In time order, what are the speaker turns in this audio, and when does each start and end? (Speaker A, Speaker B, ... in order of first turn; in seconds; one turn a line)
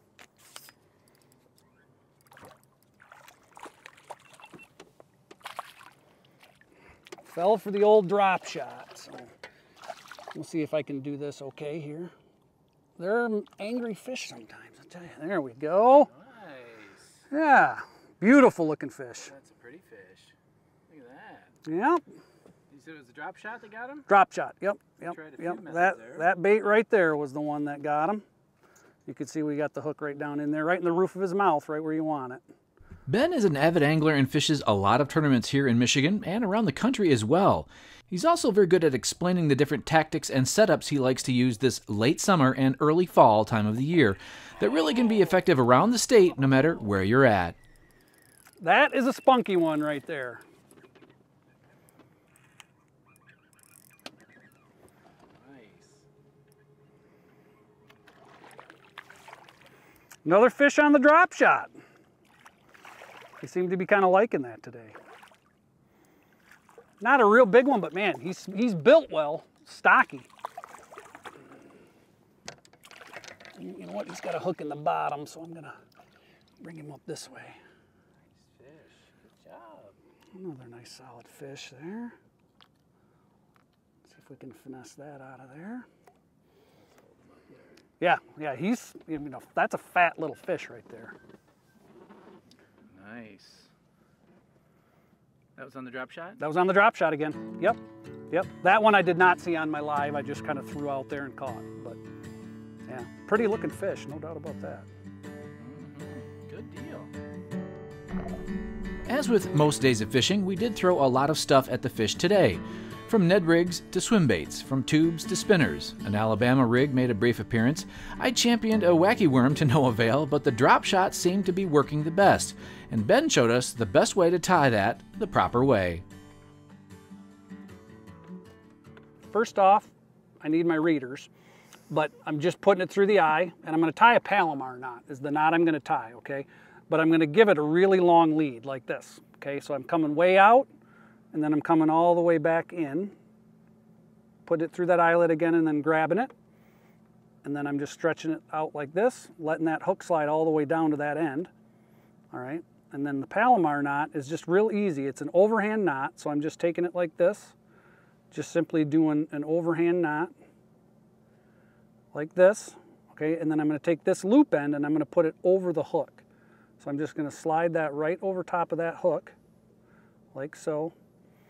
Speaker A: 7.2-9.3
Speaker A: 10.3-12.1
Speaker A: 13.0-16.1
Speaker B: 16.1-17.2
Speaker A: 17.3-19.3
Speaker B: 19.2-20.3
Speaker B: 20.9-21.5
Speaker A: 21.6-22.0
Speaker B: 22.7-24.1
Speaker A: 24.1-28.2
Speaker B: 25.0-26.4
Speaker A: 29.1-32.4
Speaker C: 33.1-47.6
Speaker A: 48.6-50.4
Speaker B: 55.4-56.0
Speaker A: 60.2-61.7
Speaker A: 63.4-65.0
Speaker A: 67.0-70.3
Speaker A: 73.6-75.8
Speaker A: 76.6-77.6
Speaker B: 78.4-79.9
Speaker A: 80.3-82.1
Speaker A: 84.1-85.9
Speaker B: 87.0-87.4
Speaker A: 88.0-91.1
Speaker C: 93.0-93.4
Speaker B: 93.3-93.7
Speaker B: 95.6-96.2
Speaker C: 95.7-96.3
Speaker A: 96.4-97.8
Speaker A: 98.3-102.0
Speaker A: 102.9-104.9
Speaker C: 105.6-107.1
Speaker C: 109.1-126.0
Speaker A: 129.3-129.9
Speaker A: 130.4-131.3
Speaker A: 131.9-140.7
Speaker A: 141.3-143.1
Speaker A: 144.4-146.3
Speaker A: 147.4-151.5
Speaker A: 152.3-157.5
Speaker A: 158.3-160.3
Speaker A: 162.1-166.2
Speaker A: 166.8-169.3
Speaker A: 170.3-170.9